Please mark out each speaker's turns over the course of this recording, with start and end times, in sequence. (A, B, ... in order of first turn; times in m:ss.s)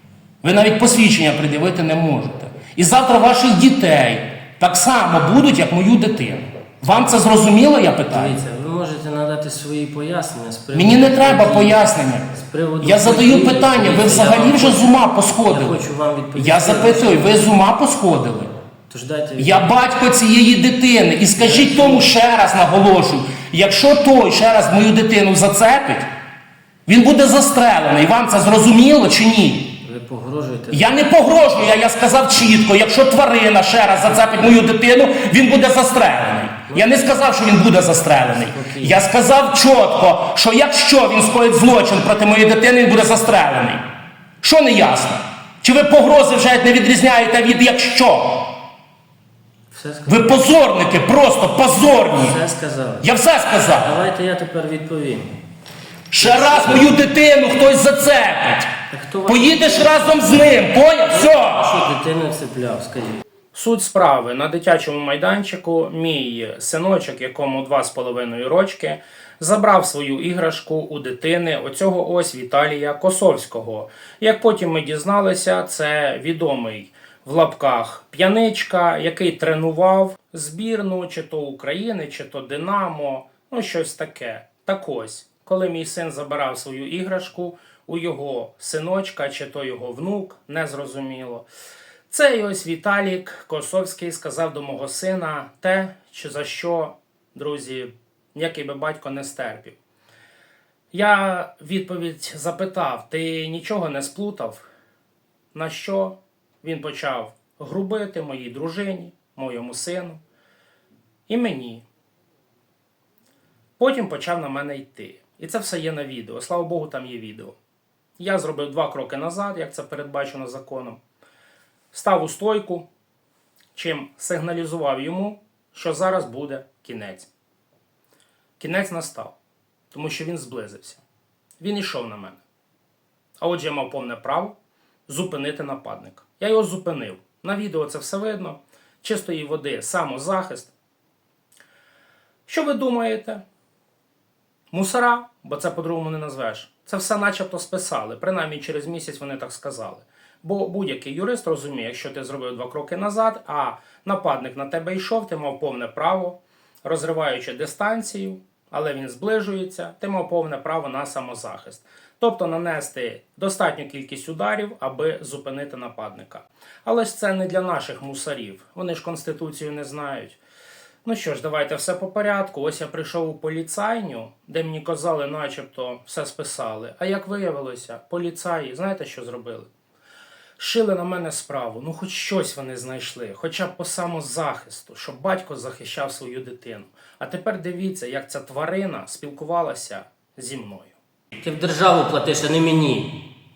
0:00.4-0:08.4 A
0:08.1-0:17.4 B
0:10.7-0:15.8 A
0:16.3-0:18.5 A
0:18.9-0:19.7 B
0:19.4-0:26.1 A
0:21.4-0:22.1 B
0:26.8-0:29.8 A
0:29.8-0:30.9 B
0:30.7-0:43.8 A
0:36.7-0:37.2 B
0:38.0-0:39.0 B
0:44.4-0:48.5 A
0:49.7-0:50.4 B
0:50.0-0:52.4 A
0:52.1-0:53.1 B
0:53.0-0:54.0 A
0:53.8-0:55.4 B
0:56.1-1:01.9 A
0:56.2-0:57.0 B
0:58.9-1:03.2 B
1:03.5-1:31.4 A
1:32.1-1:39.8 A
1:40.9-1:44.6 A
1:45.5-1:50.2 A
1:51.3-1:51.8 A
1:53.8-1:57.6 A
1:58.2-2:01.0 A
2:01.9-2:02.9 A
2:03.7-2:07.3 A
2:08.6-2:09.4 A
2:09.9-2:11.0 A
2:11.6-2:12.4 A
2:13.4-2:14.6 A
2:15.1-2:20.7 A
2:22.5-2:23.4 A
2:24.7-2:50.4 A
2:51.0-2:59.7 A
3:00.6-3:10.9 A
3:11.4-3:13.3 B